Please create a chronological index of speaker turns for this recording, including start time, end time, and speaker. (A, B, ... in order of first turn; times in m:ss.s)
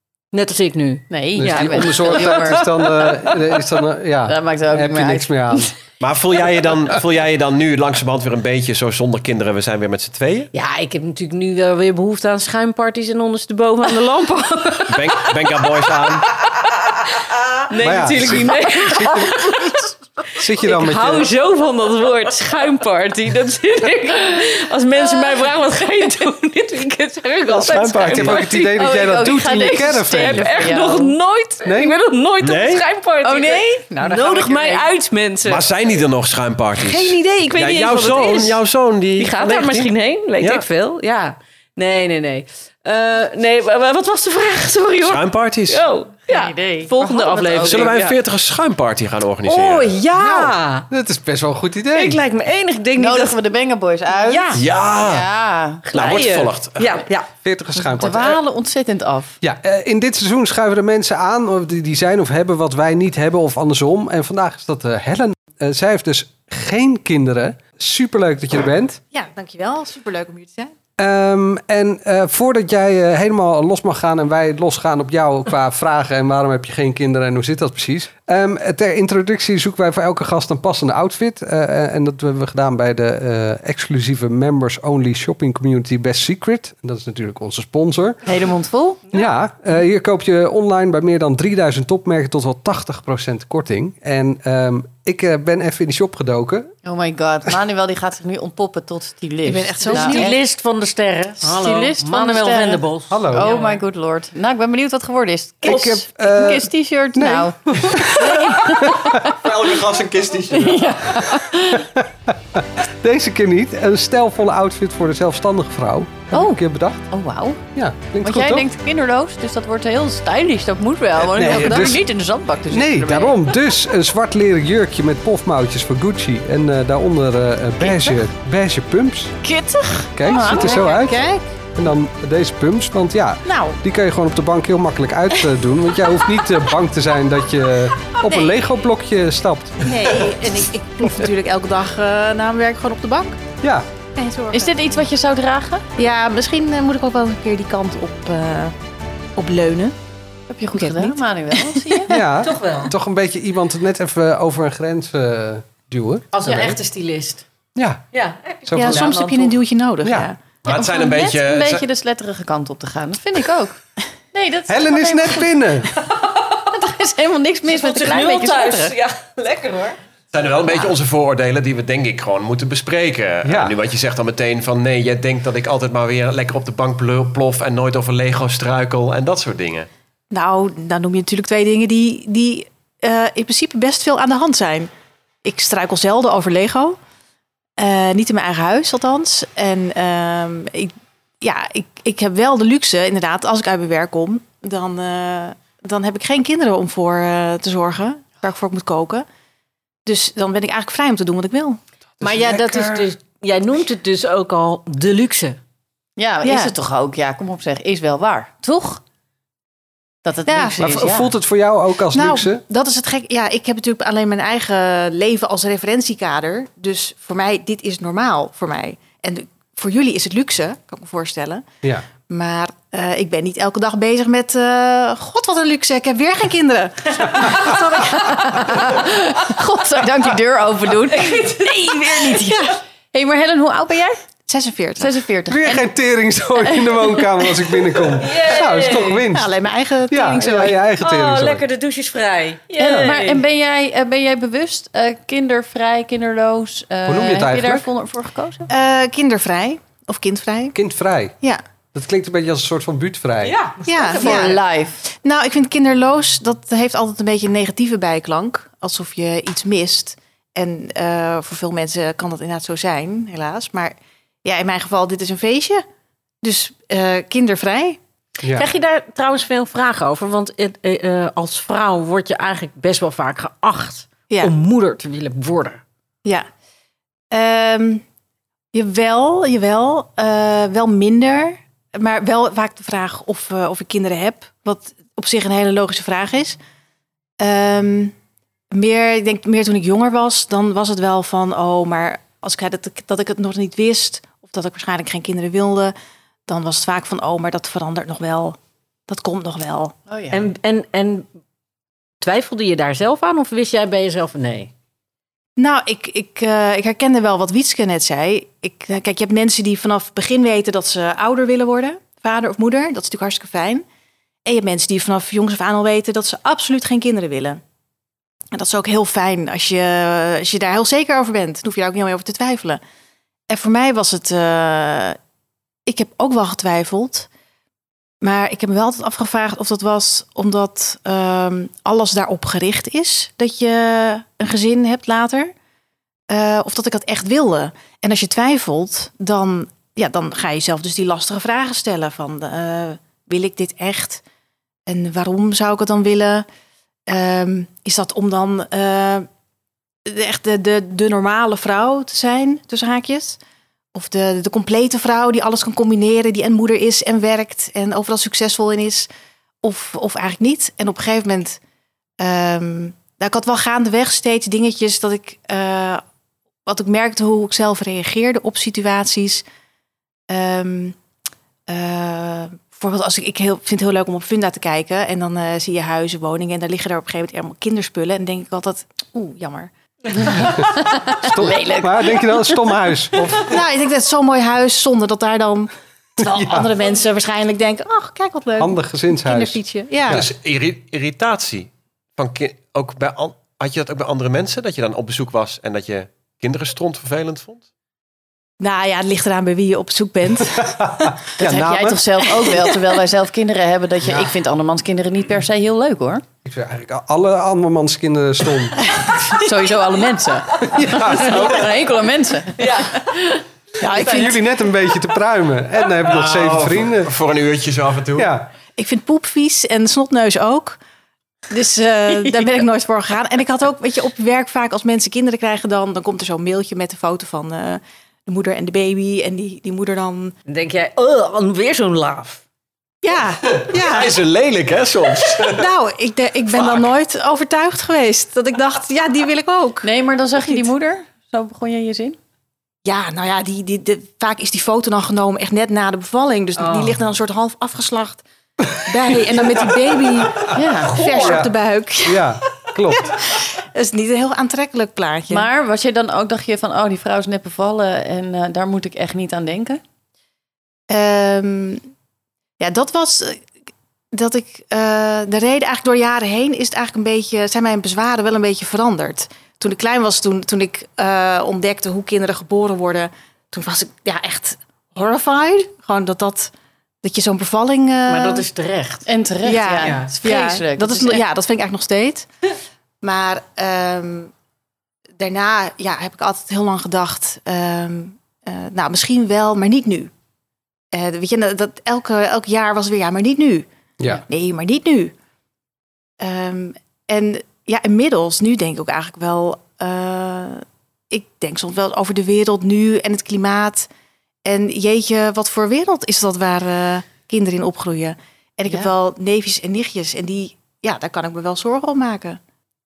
0:00.3-0:03.6 A
0:01.1-0:02.6 B
0:01.4-0:05.7 C
0:04.3-0:05.7 B
0:06.0-0:10.5 D
0:10.5-0:29.3 A
0:14.9-0:16.3 D
0:17.8-0:19.6 C
0:19.6-0:19.8 B
0:20.3-0:21.3 C
0:25.0-0:25.4 B
0:27.5-0:28.5 D
0:28.1-0:30.5 C
0:28.7-0:31.1 B
0:29.9-0:35.6 A
0:31.6-0:31.9 C
0:32.4-0:32.8 D
0:33.2-0:34.9 B
0:35.4-0:40.6 D
0:36.8-0:38.6 A
0:39.2-0:48.2 A
0:45.0-0:45.8 D
0:46.3-0:47.9 B
0:47.6-0:49.9 D
0:49.4-0:50.9 A
0:50.1-0:52.2 C
0:51.9-0:53.4 A
0:53.0-0:55.8 B
0:54.1-0:54.6 A
0:54.5-0:55.3 D
0:55.9-0:57.3 A
0:55.9-0:57.0 D
0:57.4-0:58.4 C
0:57.7-0:59.4 B
0:59.4-1:09.0 C
1:09.1-1:10.7 E
1:11.0-1:28.2 C
1:28.2-1:29.1 B
1:29.1-1:36.7 C
1:36.8-1:40.3 B
1:39.4-1:40.4 E
1:39.9-1:43.8 A
1:41.4-1:49.3 B
1:43.1-1:43.5 C
1:45.6-1:49.1 C
1:49.2-1:51.0 D
1:50.5-1:51.9 B
1:51.7-1:57.0 C
1:56.3-1:57.6 B
1:57.7-1:58.7 C
1:58.2-2:03.4 B
2:01.2-2:02.0 C
2:01.5-2:01.9 E
2:02.7-2:09.4 C
2:07.8-2:08.1 B
2:09.4-2:10.9 B
2:10.1-2:11.2 C
2:10.5-2:11.4 E
2:11.7-2:19.8 C
2:13.4-2:13.8 E
2:19.8-2:23.4 E
2:24.1-2:24.8 E
2:24.5-2:25.8 B
2:26.0-2:28.7 E
2:29.4-2:29.9 E
2:30.5-2:32.2 B
2:30.7-2:32.0 E
2:32.1-2:36.8 C
2:32.4-2:32.9 A
2:36.3-2:37.4 A
2:37.8-2:38.0 C
2:38.1-2:39.5 A
2:38.6-2:39.1 C
2:38.7-2:40.4 E
2:39.0-2:39.3 B
2:40.6-2:41.8 D
2:40.7-2:46.1 B
2:44.7-2:45.9 C
2:46.7-2:48.9 B
2:47.7-2:50.0 A
2:50.3-2:59.9 D
2:53.4-2:53.8 C
3:00.3-3:04.9 E
3:05.4-3:07.0 E
3:07.8-3:19.2 E
3:20.0-3:21.8 E
3:22.2-3:23.1 C
3:22.2-3:25.6 A
3:26.2-3:29.0 B
3:26.4-3:26.7 E
3:30.2-3:31.3 B
3:30.5-3:31.0 E
3:30.8-3:32.6 C
3:32.1-3:41.6 E
3:42.3-3:49.0 E
3:47.3-3:49.0 A
3:48.1-3:54.2 B
3:51.0-3:52.5 A
3:52.4-3:52.8 E
3:54.5-3:55.1 E
3:55.0-3:55.9 B
3:55.5-3:59.5 C
3:56.6-3:57.9 B
3:58.2-3:59.3 A
3:59.3-4:00.8 E
4:00.1-4:01.6 C
4:01.0-4:03.4 A
4:02.8-4:08.7 B
4:07.0-4:07.9 C
4:08.7-4:10.8 E
4:10.7-4:11.4 C
4:11.9-4:13.6 C
4:13.4-4:14.6 A
4:13.8-4:25.8 E
4:14.1-4:15.0 B
4:26.4-4:28.0 E
4:28.4-4:28.7 C
4:28.5-4:35.8 A
4:37.3-4:38.0 E
4:38.7-4:46.6 E
4:47.4-4:48.1 E
4:48.7-4:55.9 E
4:56.5-4:58.6 E
4:59.1-4:59.9 E
5:00.1-5:00.4 B
5:00.3-5:01.2 A
5:02.2-5:04.7 A
5:05.6-5:13.8 E
5:14.4-5:17.6 E
5:18.5-5:22.8 E
5:23.5-5:25.2 E
5:25.9-5:27.3 E
5:28.2-5:35.5 E
5:36.3-5:44.2 E
5:44.9-5:46.4 E
5:47.1-5:49.3 E
5:50.0-5:53.4 E
5:53.9-5:59.1 E
5:59.6-6:01.6 E
6:02.2-6:06.0 E
6:06.6-6:09.4 E
6:10.3-6:11.0 E
6:11.7-6:20.3 E
6:20.4-6:22.7 B
6:20.4-6:20.6 C
6:21.2-6:23.6 C
6:23.4-6:30.2 E
6:26.2-6:26.7 C
6:28.6-6:30.3 C
6:30.1-6:37.6 D
6:38.6-6:41.2 E
6:40.8-6:42.0 C
6:41.4-6:46.2 B
6:46.4-6:48.8 C
6:49.2-6:52.9 B
6:50.7-6:51.7 C
6:52.6-6:54.4 A
6:53.8-6:54.4 E
6:53.9-6:57.1 C
6:56.1-6:58.3 D
6:58.2-6:58.5 C
6:58.8-7:00.8 E
7:01.5-7:10.3 E
7:10.5-7:12.4 A
7:13.0-7:14.2 E
7:13.5-7:15.7 D
7:15.4-7:19.9 E
7:16.6-7:16.8 D
7:19.8-7:22.2 B
7:22.8-7:28.2 E
7:26.6-7:27.0 A
7:28.8-7:32.2 E
7:30.5-7:31.0 B
7:30.9-7:31.4 A
7:31.2-7:33.2 C
7:32.9-7:35.5 E
7:35.3-7:39.8 B
7:40.9-7:41.8 E
7:42.6-7:43.5 E
7:44.1-7:56.5 E
7:57.0-7:58.4 E
7:58.1-7:59.1 A
7:59.0-8:01.2 B
7:59.4-8:02.3 E
7:59.8-8:00.1 A
8:03.0-8:04.3 E
8:05.2-8:10.1 E
8:10.9-8:13.6 E
8:14.3-8:15.1 E
8:16.2-8:23.9 E
8:24.4-8:32.4 E